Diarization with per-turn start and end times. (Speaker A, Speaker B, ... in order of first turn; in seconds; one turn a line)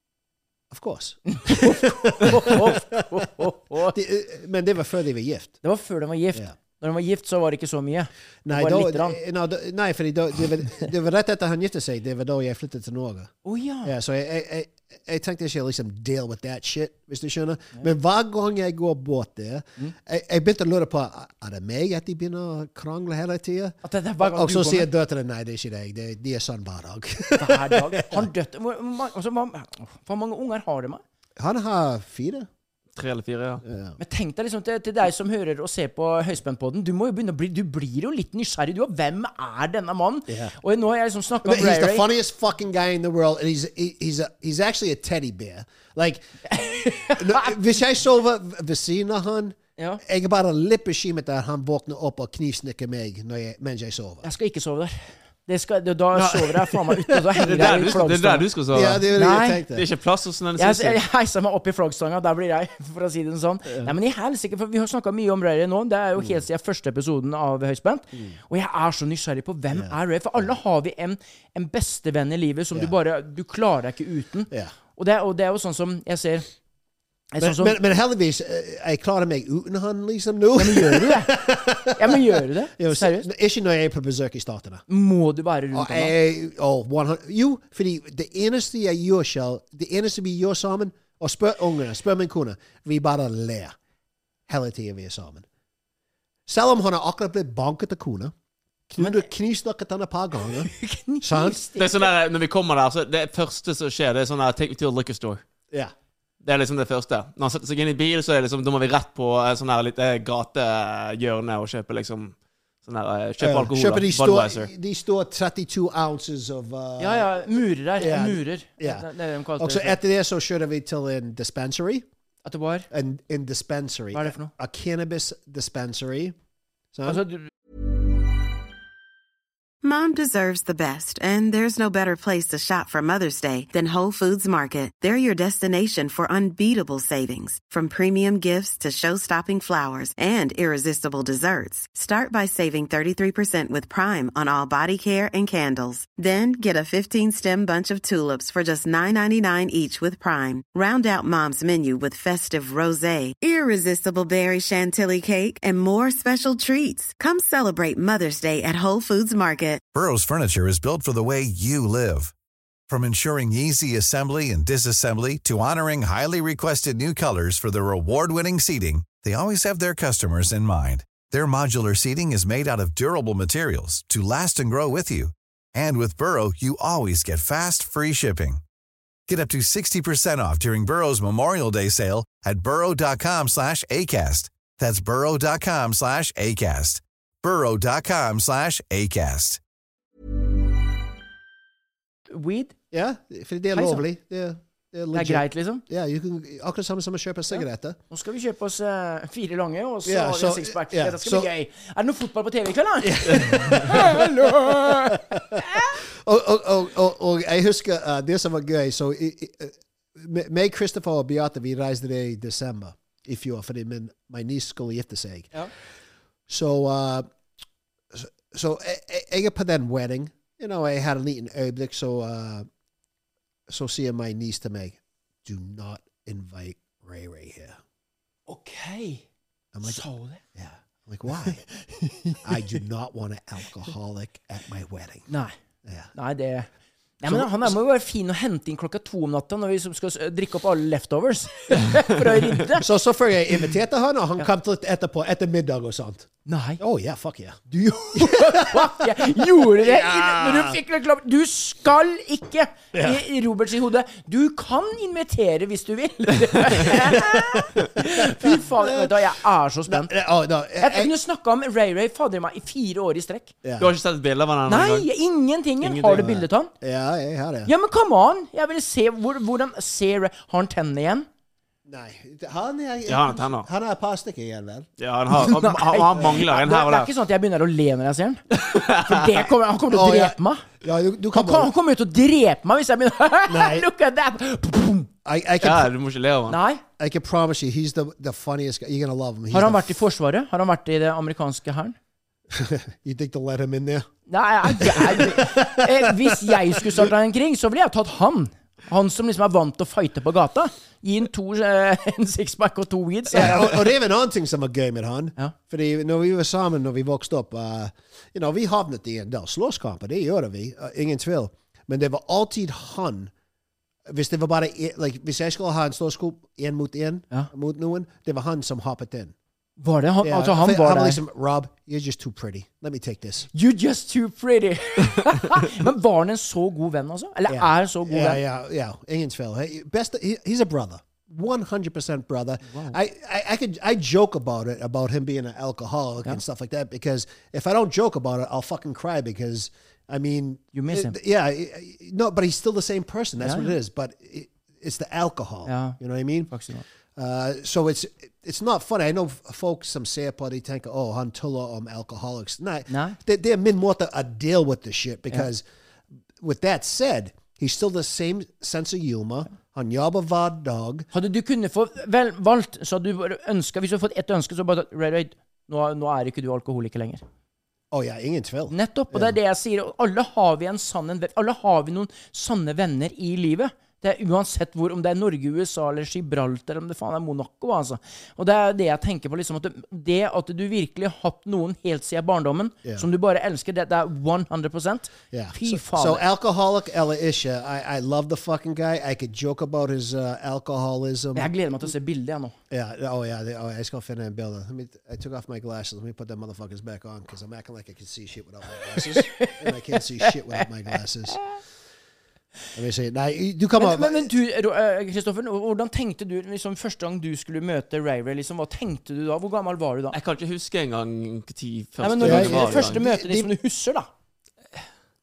Speaker A: 0.7-3.0
Speaker B: 1.3-4.0
Speaker A: 3.8-5.6
Speaker B: 5.6-9.2
Speaker A: 8.4-13.3
Speaker B: 13.4-13.9
Speaker A: 13.8-28.3
Speaker B: 23.8-24.9
Speaker B: 27.4-31.0
Speaker A: 31.4-32.5
Speaker C: 33.0-33.6
Speaker A: 33.6-34.0
Speaker B: 34.0-42.1
Speaker A: 40.3-40.5
Speaker A: 41.4-46.3
Speaker B: 46.5-47.5
Speaker A: 47.1-54.2
Speaker B: 49.8-50.0
Speaker B: 54.2-58.5
Speaker A: 56.1-58.0
Speaker C: 57.4-59.1
Speaker A: 58.7-59.9
Speaker B: 59.1-59.6
Speaker C: 59.7-61.0
Speaker B: 60.6-76.5
Speaker A: 66.2-66.4
Speaker A: 69.7-70.5
Speaker B: 77.3-77.8
Speaker A: 77.4-84.8
Speaker B: 80.5-83.3
Speaker B: 84.9-86.1
Speaker A: 85.7-93.7
Speaker A: 94.5-95.4
Speaker A: 96.5-98.3
Speaker A: 98.9-101.6
Speaker B: 99.0-99.2
Speaker B: 100.7-102.1
Speaker C: 101.8-105.4
Speaker C: 106.4-114.7
Speaker A: 113.4-117.3
Speaker B: 117.0-120.0
Speaker A: 118.0-119.1
Speaker A: 119.6-122.0
Speaker B: 122.4-122.9
Speaker A: 122.9-126.3
Speaker B: 124.1-124.5
Speaker A: 126.9-127.2
Speaker B: 127.1-127.5
Speaker D: 129.8-159.8
Speaker E: 159.9-162.3
Speaker E: 162.9-178.6
Speaker E: 179.3-189.6
Speaker B: 192.3-192.7
Speaker A: 192.9-198.0
Speaker B: 193.7-194.0
Speaker B: 195.1-195.8
Speaker B: 198.1-206.0
Speaker A: 200.0-201.5
Speaker A: 203.0-215.6
Speaker A: 216.5-217.3
Speaker A: 218.1-222.7
Speaker A: 223.7-227.8
Speaker B: 228.5-229.2
Speaker A: 229.7-230.0
Speaker B: 229.8-230.4
Speaker A: 230.6-231.6
Speaker B: 231.9-232.4
Speaker A: 232.4-235.3
Speaker B: 235.3-235.5
Speaker B: 236.1-236.7
Speaker B: 237.2-242.8
Speaker A: 237.2-237.8
Speaker A: 242.8-249.1
Speaker B: 246.4-246.8
Speaker B: 247.7-260.1
Speaker A: 249.7-250.8
Speaker A: 252.9-253.2
Speaker A: 257.1-259.3
Speaker A: 259.9-261.1
Speaker B: 260.8-263.5
Speaker A: 263.6-263.9
Speaker C: 263.8-265.1
Speaker B: 264.7-266.7
Speaker C: 265.8-266.2
Speaker A: 266.1-267.7
Speaker B: 267.6-271.3
Speaker A: 271.9-274.9
Speaker C: 273.1-273.7
Speaker C: 275.0-277.1
Speaker B: 275.3-280.7
Speaker C: 278.6-279.1
Speaker A: 279.9-281.7
Speaker B: 281.3-285.1
Speaker A: 283.5-283.9
Speaker A: 285.2-285.9
Speaker C: 285.6-286.6
Speaker B: 286.5-286.8
Speaker A: 287.0-289.9
Speaker B: 289.5-291.9
Speaker A: 292.5-294.1
Speaker B: 294.3-303.7
Speaker A: 294.7-297.1
Speaker A: 303.3-313.3
Speaker A: 314.1-319.3
Speaker B: 319.8-321.2
Speaker A: 320.2-323.5
Speaker B: 323.5-328.4
Speaker A: 327.5-346.5
Speaker B: 332.7-333.0
Speaker B: 340.7-341.1
Speaker B: 343.4-343.7
Speaker B: 345.6-346.0
Speaker B: 346.5-346.8
Speaker A: 347.1-355.6
Speaker B: 352.9-353.2
Speaker A: 356.4-361.1
Speaker B: 361.1-367.2
Speaker A: 367.9-369.3
Speaker B: 368.7-386.2
Speaker A: 385.3-391.5
Speaker B: 391.3-392.6
Speaker A: 392.7-401.4
Speaker B: 398.9-399.7
Speaker B: 400.2-400.6
Speaker B: 401.3-401.6
Speaker A: 402.7-404.3
Speaker B: 403.8-410.1
Speaker C: 410.1-413.0
Speaker B: 412.0-414.1
Speaker A: 412.2-413.5